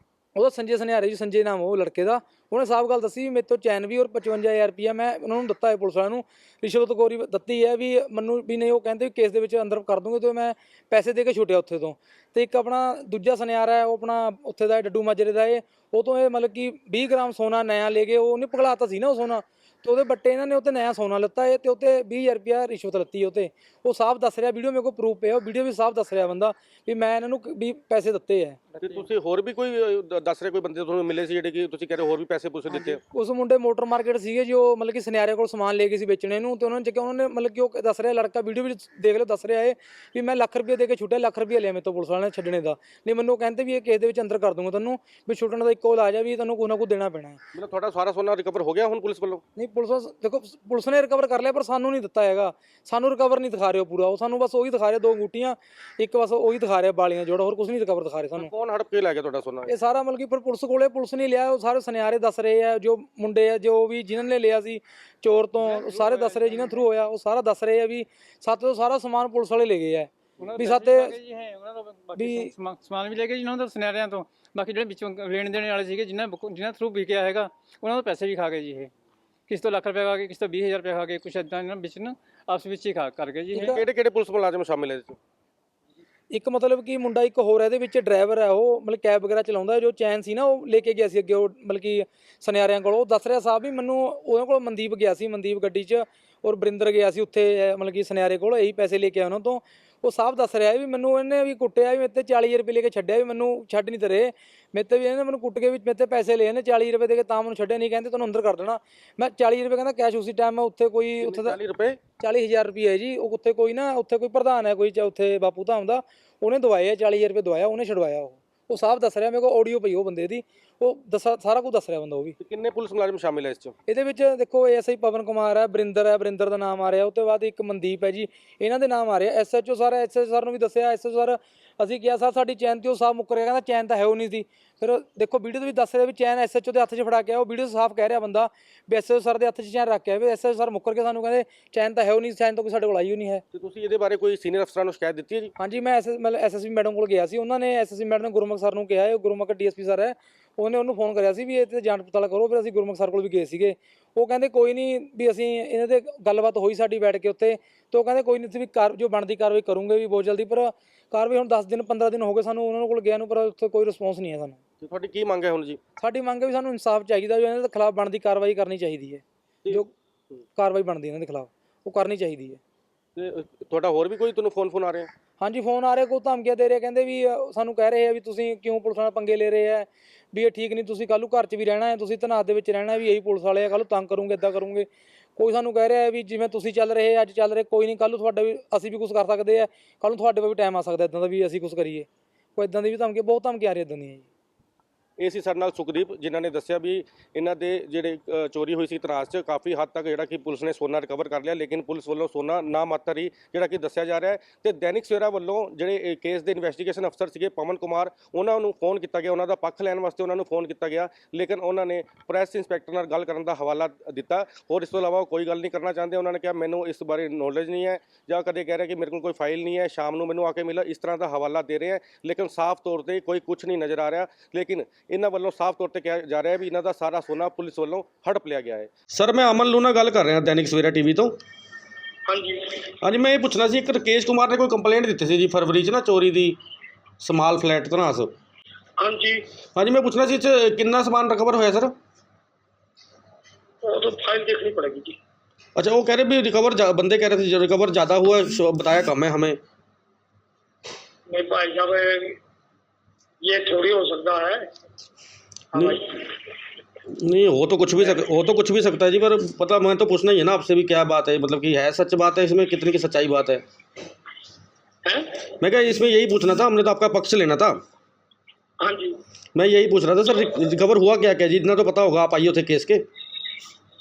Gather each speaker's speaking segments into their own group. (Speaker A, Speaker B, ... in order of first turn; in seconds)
Speaker A: 0.3-28.6, 32.7-47.4, 49.6-58.5, 59.7-71.1, 72.2-72.5, 86.3-111.6, 112.2-122.4, 123.9-143.4, 145.6-164.6, 166.0-169.9, 170.6-172.6, 175.4-194.3
Speaker B: 28.8-33.0, 47.5-49.4, 58.4-59.7, 83.5-85.2, 111.2-112.0, 122.4-123.8, 143.5-145.5, 164.8-165.8, 169.6-170.4, 173.2-175.1, 195.2-231.4, 233.0-236.6, 237.2-238.3, 239.8-241.9, 245.8-249.6, 257.1-263.6, 265.6-267.8, 269.6-273.0
Speaker C: 65.6-66.8, 70.4-78.9, 79.5-83.8
Speaker D: 232.3-232.9, 239.0-239.4, 243.8-245.2, 251.3-252.4, 253.4-254.7, 255.7-256.2, 265.1-265.5, 268.8-269.2